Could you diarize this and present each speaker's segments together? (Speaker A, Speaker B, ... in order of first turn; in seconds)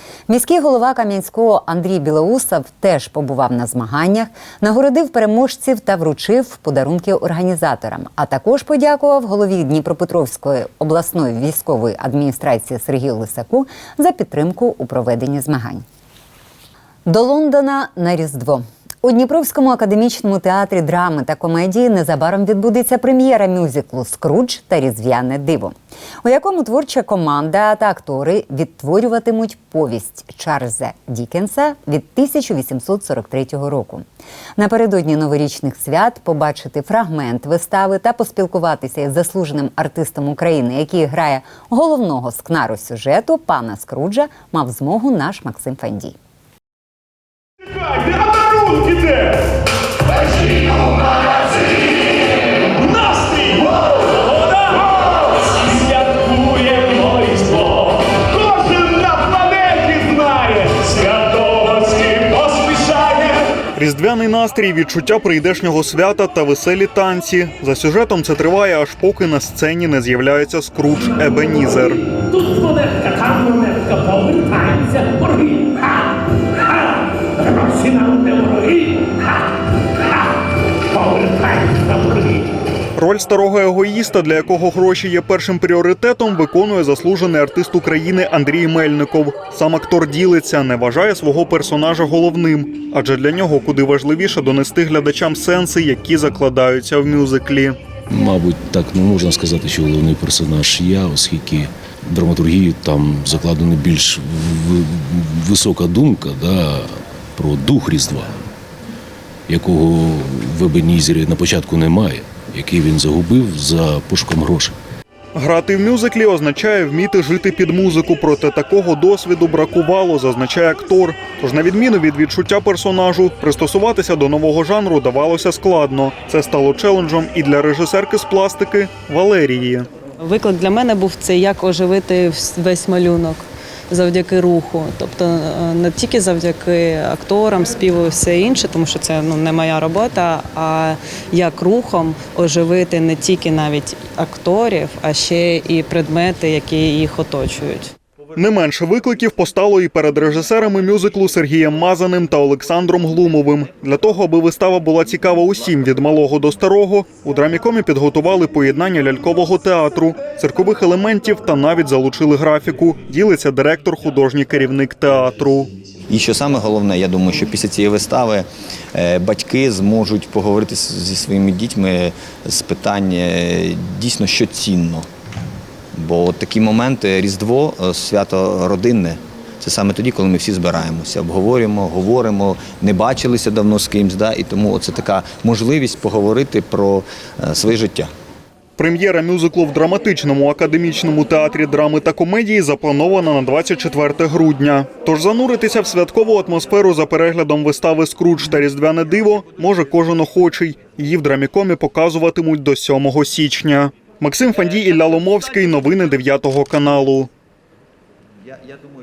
Speaker A: 0.3-15.8, 17.1-34.0, 34.6-46.1
Speaker B: 53.0-53.5, 56.3-57.6, 58.6-63.3
Speaker C: 63.8-72.0, 83.0-97.8, 115.3-129.9, 148.3-165.7, 188.8-207.3
Speaker D: 98.1-108.4, 109.5-114.7
Speaker E: 130.2-147.9
Speaker F: 166.1-175.1, 175.9-188.1